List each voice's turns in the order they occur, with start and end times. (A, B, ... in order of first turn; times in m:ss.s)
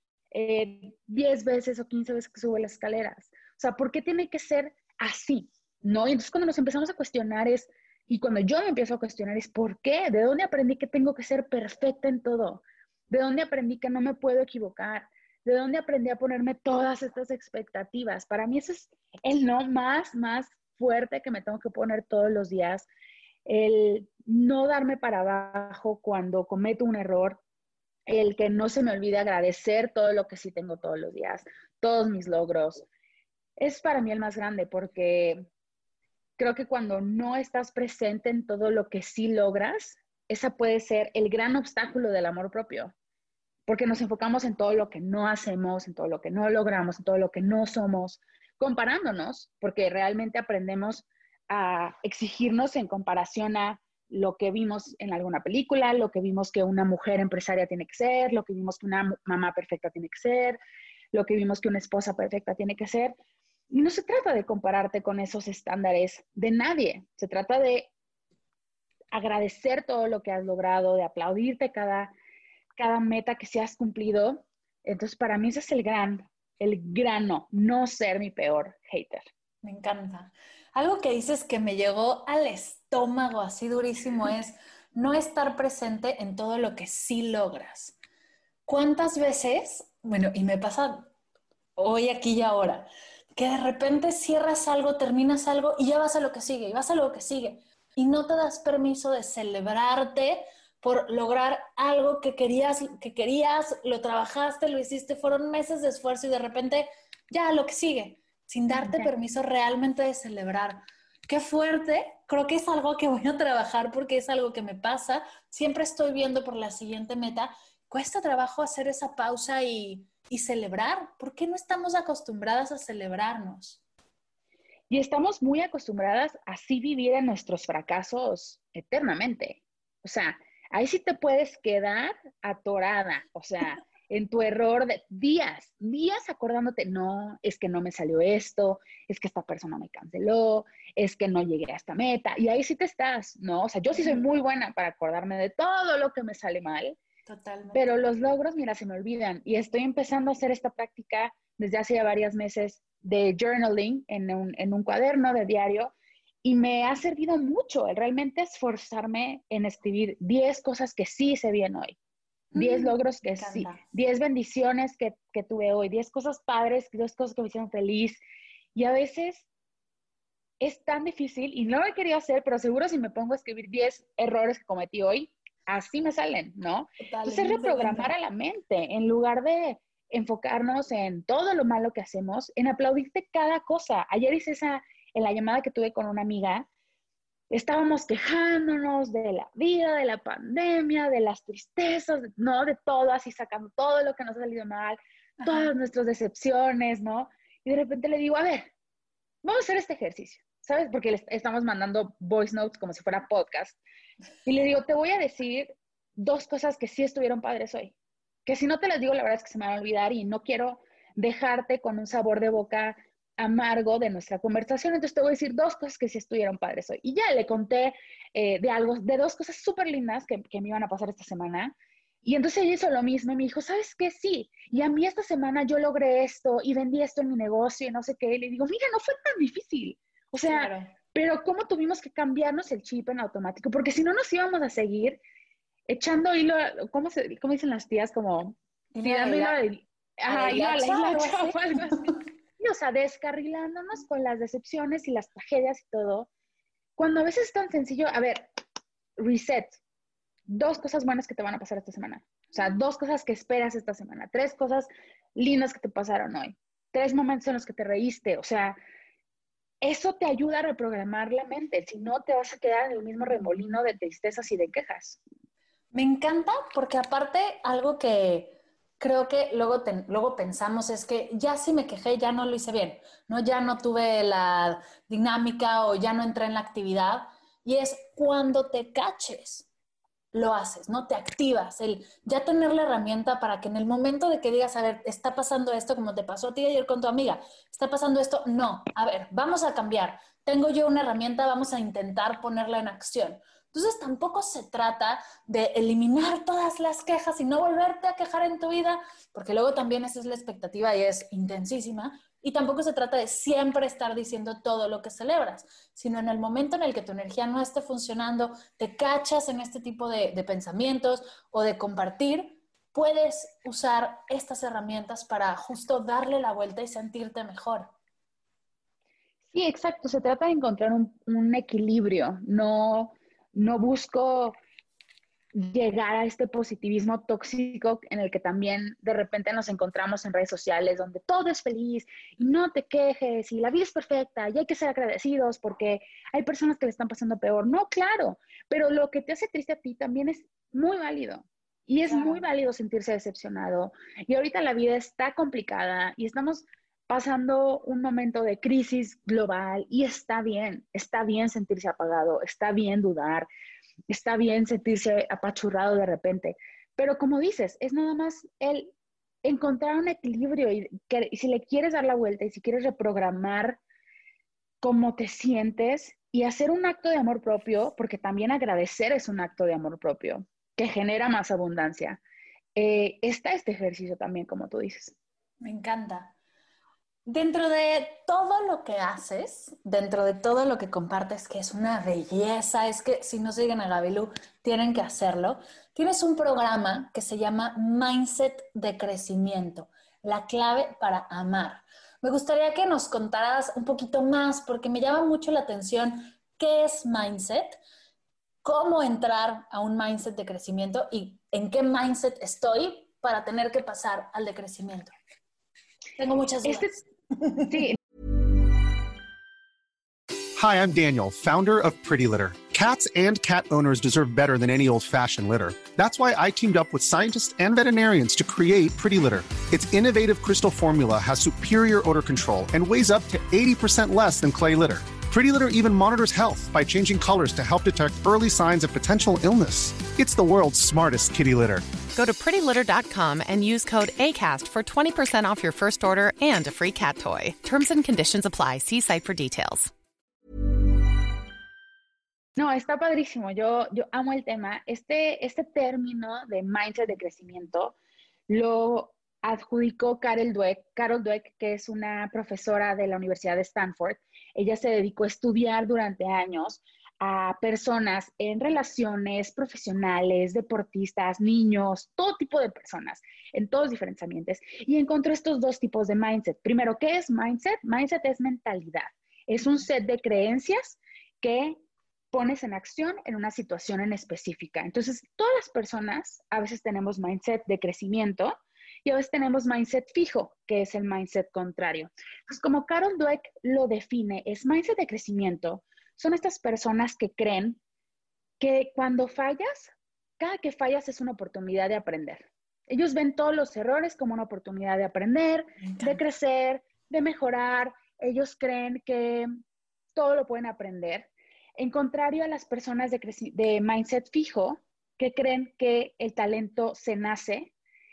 0:00.3-0:22.9 A
0:23.4-0:27.4 A
0:28.1-0:32.9 A
0:33.6-0:35.4 A
0:36.4-0:42.9 A
0:43.7-1:00.6 A
1:01.1-1:03.2 A
1:03.7-1:07.9 A
1:09.1-1:12.1 A
1:12.8-1:19.2 A
1:19.6-1:28.0 B
1:28.7-1:31.1 B
1:31.8-2:03.8 B
1:48.8-1:49.1 A
2:04.9-2:27.0 A
2:27.3-2:27.8 B
2:27.7-2:35.9 A
2:36.4-2:42.0 A
2:42.5-2:43.8 B
2:42.5-2:48.2 A
2:48.7-2:49.4 A
2:50.6-3:06.7 A
2:57.0-2:58.1 B
3:07.5-3:18.7 A
3:15.4-3:15.7 B
3:19.4-3:23.8 A
3:24.4-3:27.9 A
3:28.4-3:55.2 A
3:50.4-3:50.9 B
3:55.9-4:06.3 A
3:58.9-3:59.6 B
4:00.3-4:02.2 B
4:07.0-4:08.5 A
4:09.2-4:09.8 A
4:10.5-4:18.8 A
4:19.8-4:25.2 A
4:25.9-4:39.7 B
4:40.3-5:17.9 B
5:19.5-5:24.6 A
5:25.5-5:53.5 A
5:42.1-5:42.4 B
5:54.1-5:58.9 A
5:59.4-6:03.8 A
6:04.8-6:12.2 A
6:12.8-6:15.2 A
6:15.6-6:16.3 B
6:17.2-6:37.8 B
6:38.6-6:45.1 B
6:46.2-6:47.8 B
6:46.6-6:46.9 A
6:47.7-6:48.0 A
6:50.6-7:11.8 C
7:12.1-7:19.9 D
7:22.6-7:28.0 A
7:28.5-7:51.8 A
7:52.3-8:07.8 A
8:08.6-8:19.5 A
8:15.8-8:16.2 B
8:20.1-8:27.7 A